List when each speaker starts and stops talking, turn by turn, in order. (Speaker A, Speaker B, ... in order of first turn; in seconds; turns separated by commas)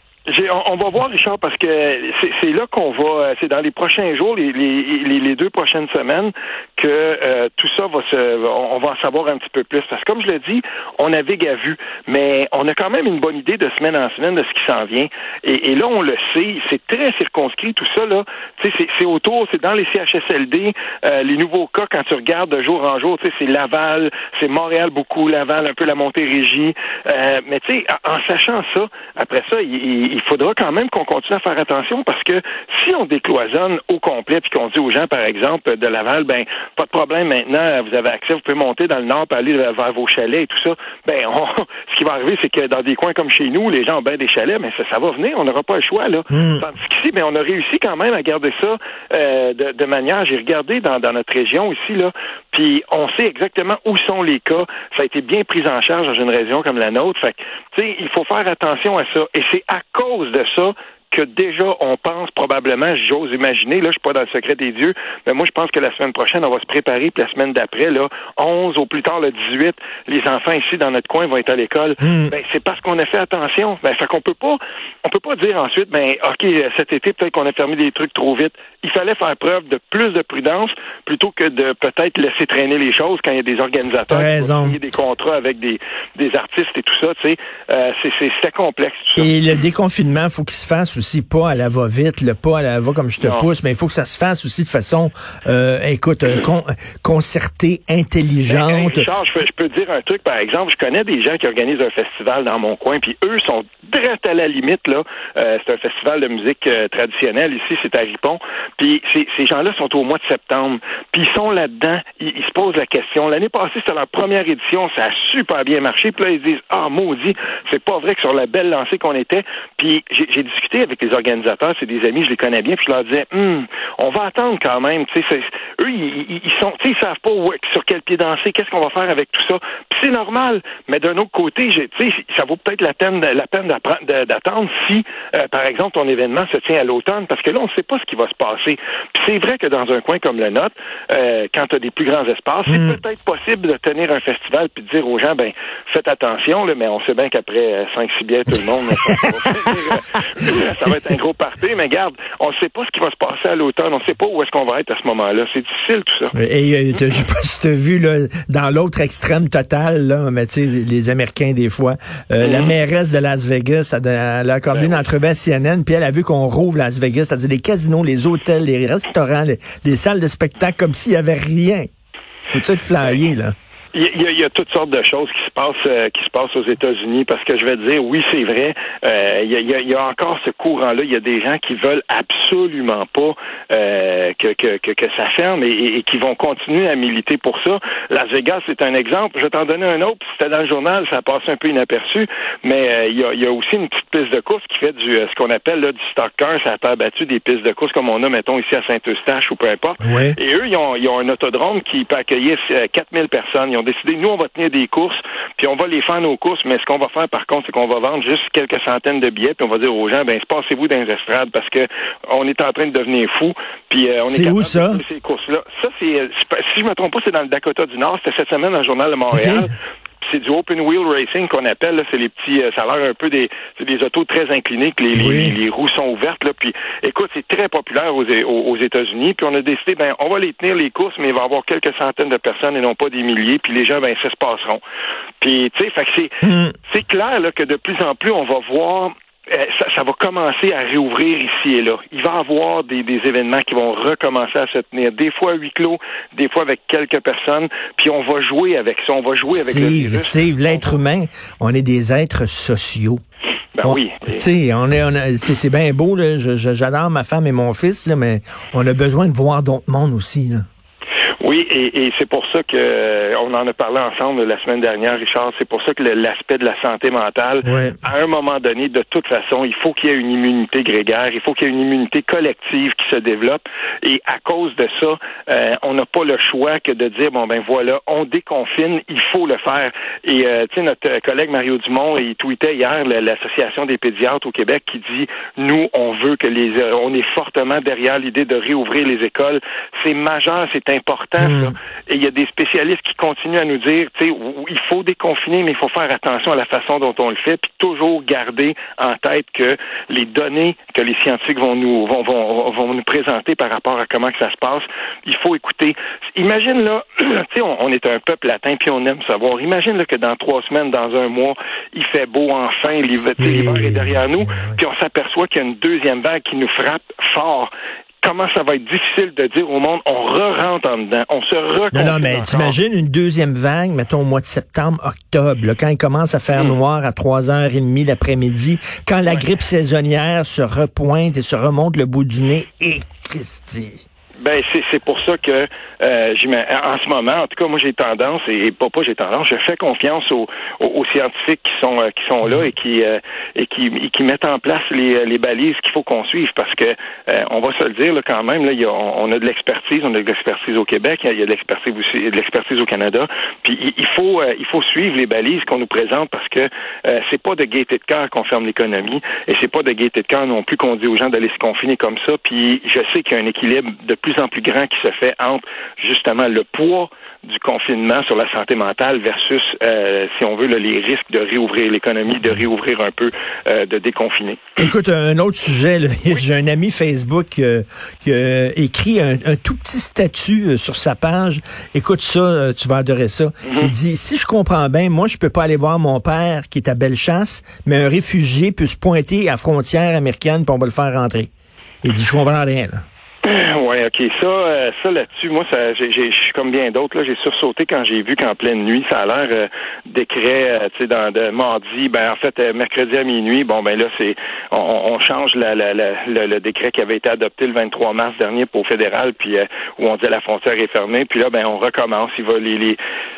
Speaker A: 0.3-89.4, Speaker B: 46.3-46.6, Speaker B: 72.0-72.3, Speaker B: 84.1-84.8, Speaker B: 89.2-99.1, Speaker A: 93.2-93.5, Speaker A: 98.5-156.3, Speaker B: 142.7-143.0, Speaker B: 156.3-171.9, Speaker A: 162.4-162.7, Speaker A: 164.7-165.0, Speaker B: 172.4-173.5, Speaker A: 173.9-234.8, Speaker B: 200.0-200.4, Speaker B: 214.3-215.0, Speaker B: 219.3-219.7, Speaker B: 225.1-225.6, Speaker A: 235.4-251.0, Speaker B: 236.4-236.7, Speaker B: 249.5-253.2, Speaker A: 253.7-254.5, Speaker B: 253.8-260.6, Speaker A: 261.4-317.7, Speaker B: 267.6-268.0, Speaker B: 291.4-291.7, Speaker B: 313.4-314.8, Speaker A: 318.2-322.8, Speaker B: 321.9-334.0, Speaker A: 326.5-326.8, Speaker A: 334.4-374.8, Speaker B: 374.8-391.5, Speaker A: 383.6-383.9, Speaker B: 392.0-393.0, Speaker A: 393.4-413.0